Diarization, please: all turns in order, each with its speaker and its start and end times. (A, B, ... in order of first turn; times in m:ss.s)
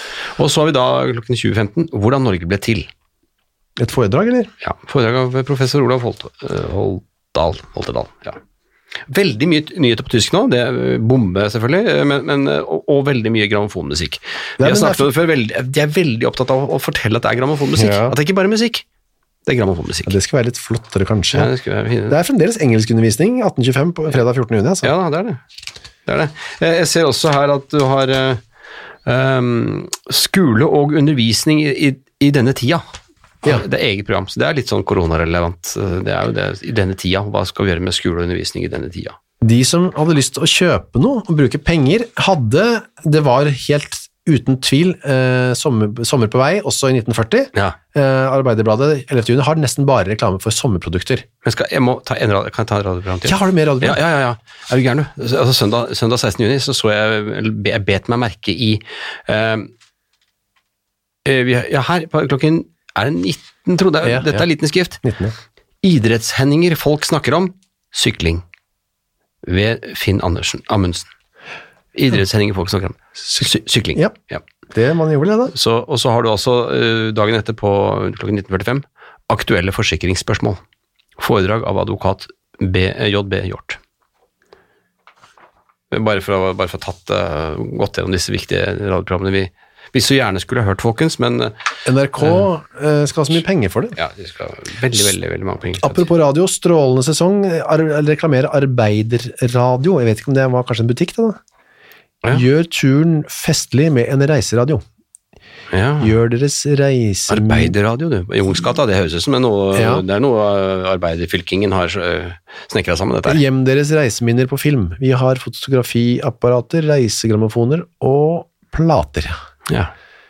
0:00.1-0:02.9 A
0:03.8-0:04.5 B
0:04.6-0:08.4 A
0:09.1-0:18.8 A
0:14.6-0:15.1 B
0:17.8-0:18.2 B
0:19.4-0:20.1 A
0:20.0-0:21.5 B
0:21.3-0:22.2 A
0:22.1-0:24.9 B
0:24.8-0:25.4 A
0:26.0-0:28.4 A
0:29.0-0:32.8 A
0:33.4-0:39.2 A
0:39.4-0:51.2 B
0:51.4-0:59.7 A
0:53.2-0:54.0 B
1:01.2-1:05.0 A
1:04.0-1:04.4 B
1:05.0-1:05.3 B
1:05.8-1:08.4 A
1:09.4-1:11.1 A
1:11.9-1:14.4 A
1:13.3-1:14.2 B
1:14.7-1:15.5 B
1:15.5-1:20.6 A
1:21.2-1:23.8 A
1:25.9-1:31.5 A
1:31.8-1:34.0 B
1:33.9-1:36.0 A
1:35.8-1:41.4 B
1:42.3-1:44.8 B
1:45.7-1:46.1 A
1:46.0-1:47.7 B
1:47.3-1:53.4 A
1:49.7-1:50.0 B
1:53.2-1:59.4 B
1:59.7-1:59.9 A